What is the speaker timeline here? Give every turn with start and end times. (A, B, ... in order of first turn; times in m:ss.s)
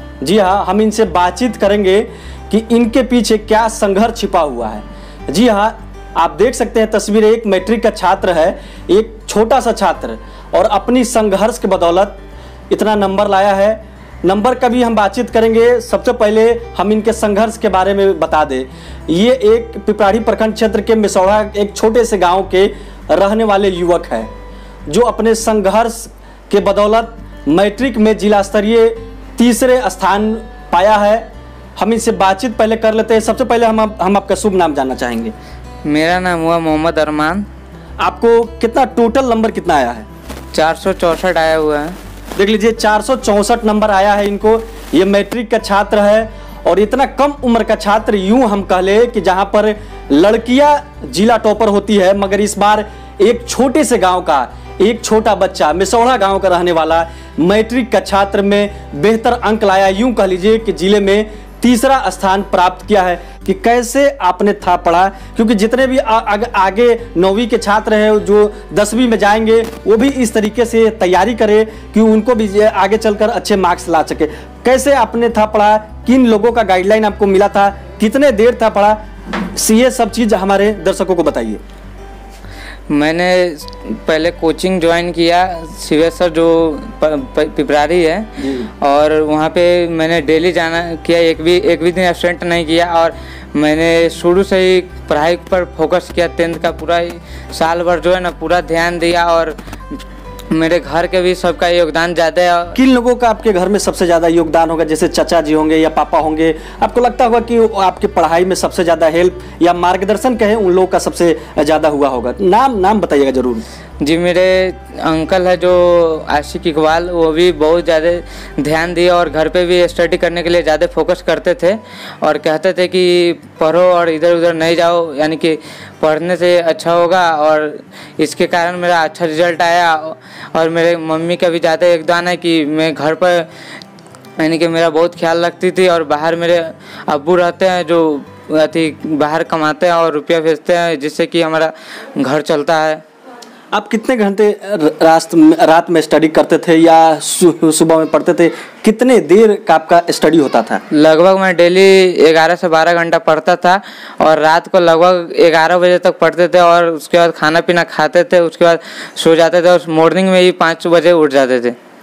0:00.2-0:12.2 A
0:12.7-0:24.3 A
0:24.9-0:31.2 A
0:31.8-0:35.3 A
0:35.8-0:37.4 B
0:38.0-0:40.0 A
0:40.5-0:42.0 B
0:42.4-1:19.0 A
1:19.5-1:21.6 A
1:22.9-1:28.3 B
1:28.4-1:28.7 A
1:28.8-1:40.0 B
1:40.5-1:42.8 B
1:42.7-1:53.6 A
1:54.0-2:13.5 B
2:14.4-2:23.0 B
2:23.7-2:30.8 A
2:30.9-2:41.8 B